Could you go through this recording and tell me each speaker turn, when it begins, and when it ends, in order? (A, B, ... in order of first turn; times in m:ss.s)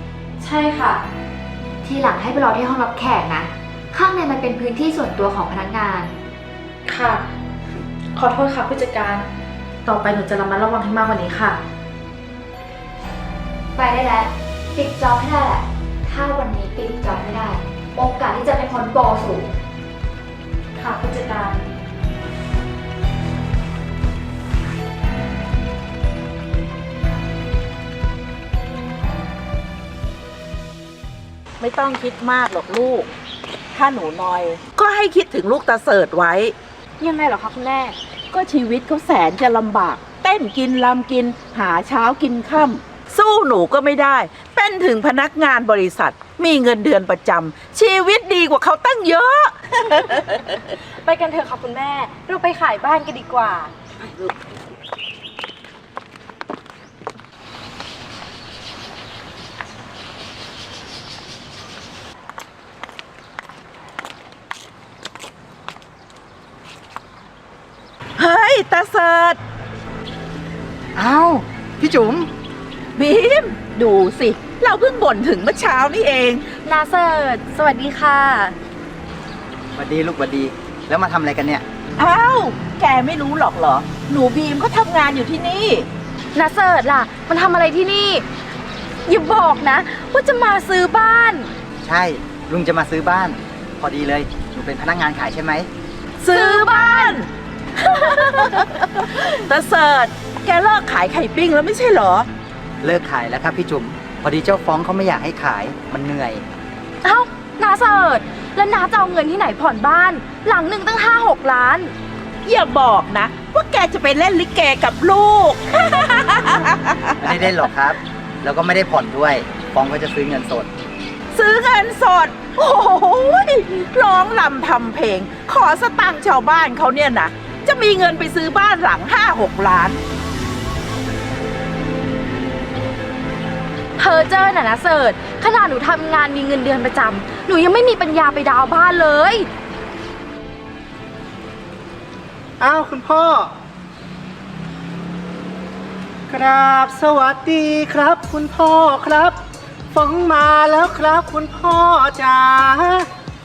0:00.4-0:01.0 A
0:01.8-0:06.1 B
0:06.8-0:07.2 A
0:08.2-0:09.2 A
0:09.8-0:11.6 A
0:13.7-0:19.5 B
0:20.8-0:21.6 A
0:31.6-0:33.1 C
0:33.7-0:36.5 C
0:37.0-0:38.0 A
0:38.3-0:49.5 C
0:51.0-0:53.7 A
1:08.2-1:09.4 C
1:11.0-1:12.3 D
1:13.0-1:16.4 C
1:16.6-1:18.5 A
1:19.8-1:21.6 D
1:22.0-1:25.9 C
1:26.3-1:28.2 A
1:29.1-1:31.5 A
1:31.8-1:35.7 D
1:36.2-1:37.3 C
1:36.3-1:37.1 A
1:37.8-1:38.6 A
1:37.9-1:42.3 C
1:42.8-1:46.4 D
1:47.0-1:51.9 A
1:52.4-1:56.9 C
1:57.2-2:00.7 D
2:01.3-2:10.0 C
2:14.0-2:19.5 A
2:22.6-2:23.5 E
2:26.3-2:29.4 E
2:29.9-2:33.1 E